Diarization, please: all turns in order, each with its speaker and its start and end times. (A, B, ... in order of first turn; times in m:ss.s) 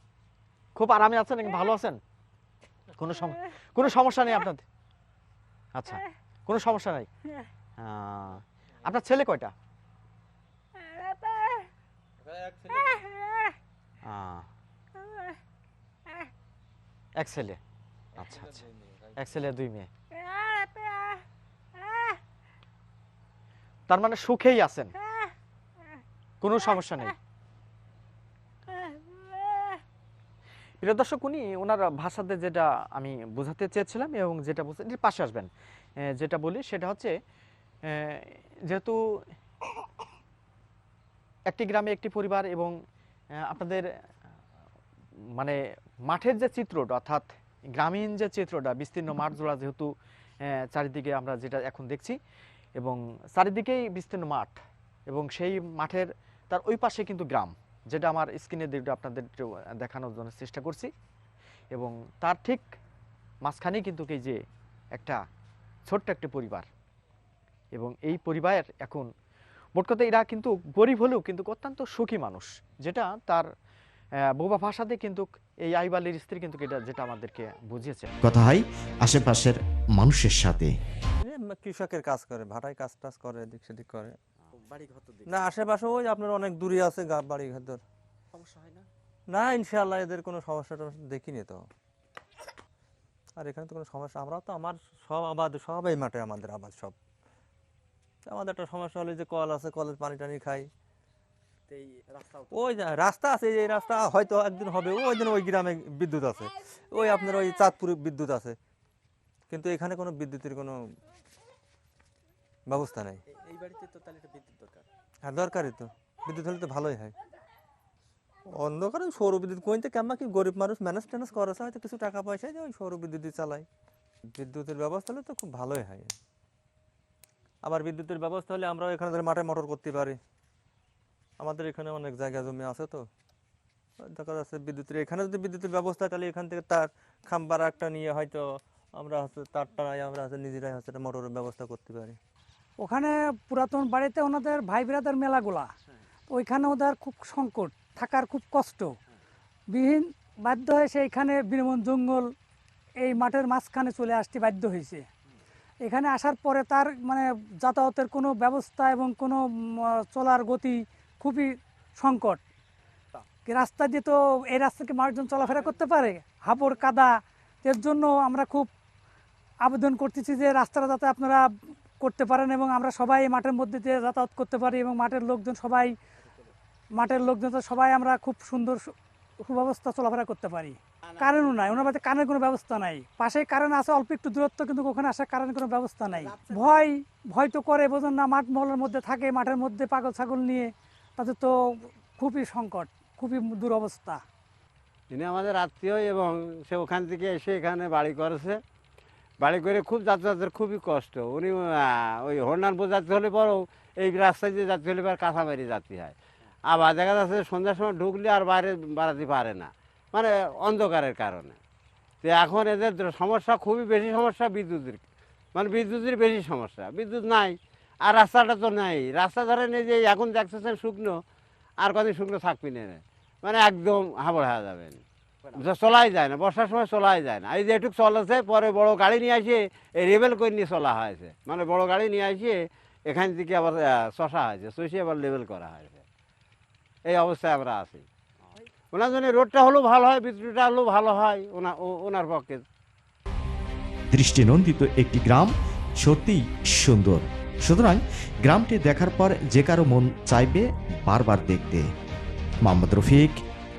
0:00.8-0:02.0 A
0:03.0-0:04.6 A
0:05.8-0:07.1 A
0:07.8-0:09.5 A
0:14.0-0:14.4 A
0:17.2-0:17.6 A
0:18.2-0:19.9 A
0:23.9-0:24.9 A
0:26.4-0:27.2 A
0:30.8-0:35.5 A
0:36.0-0:37.1 A
0:37.9-0:39.0 A
0:41.5-0:42.7 A
0:43.4-0:43.9 A
0:45.4-0:49.9 A
0:50.5-0:52.2 A
0:52.8-1:00.9 A
1:01.7-1:02.6 A
1:03.4-1:04.4 A
1:04.9-1:05.2 A
1:05.9-1:06.7 A
1:07.7-1:09.1 A
1:09.8-1:13.5 A
1:14.3-1:18.1 A
1:18.2-1:20.7 B
1:21.2-1:24.2 C
1:24.6-1:25.3 A
1:25.2-1:27.8 C
1:28.4-1:28.8 A
1:29.3-1:31.6 C
1:33.4-1:36.9 C
1:38.2-1:40.7 C
1:42.5-1:48.6 C
1:49.5-1:50.8 C
1:52.7-1:53.2 C
1:55.2-1:57.1 C
1:58.5-2:03.7 C
2:04.4-2:06.1 C
2:07.6-2:10.2 C
2:11.4-2:13.0 C
2:14.0-2:18.4 C
2:19.0-2:22.2 C
2:22.8-2:25.7 D
2:26.3-2:28.9 D
2:29.7-2:32.3 D
2:33.0-2:35.0 D
2:35.8-2:42.4 D
2:43.4-2:47.1 D
2:47.6-2:48.7 D
2:49.6-2:51.4 D
2:52.0-2:55.9 D
2:57.0-3:14.2 D
3:15.1-3:18.6 E
3:19.4-3:26.2 E
3:26.7-3:31.6 E
3:32.2-3:35.0 E
3:35.5-3:41.2 E
3:41.8-3:45.0 E
3:45.5-3:56.0 E
3:57.1-3:58.0 E
3:58.9-4:02.6 E
4:04.1-4:11.9 B
4:12.6-4:13.4 B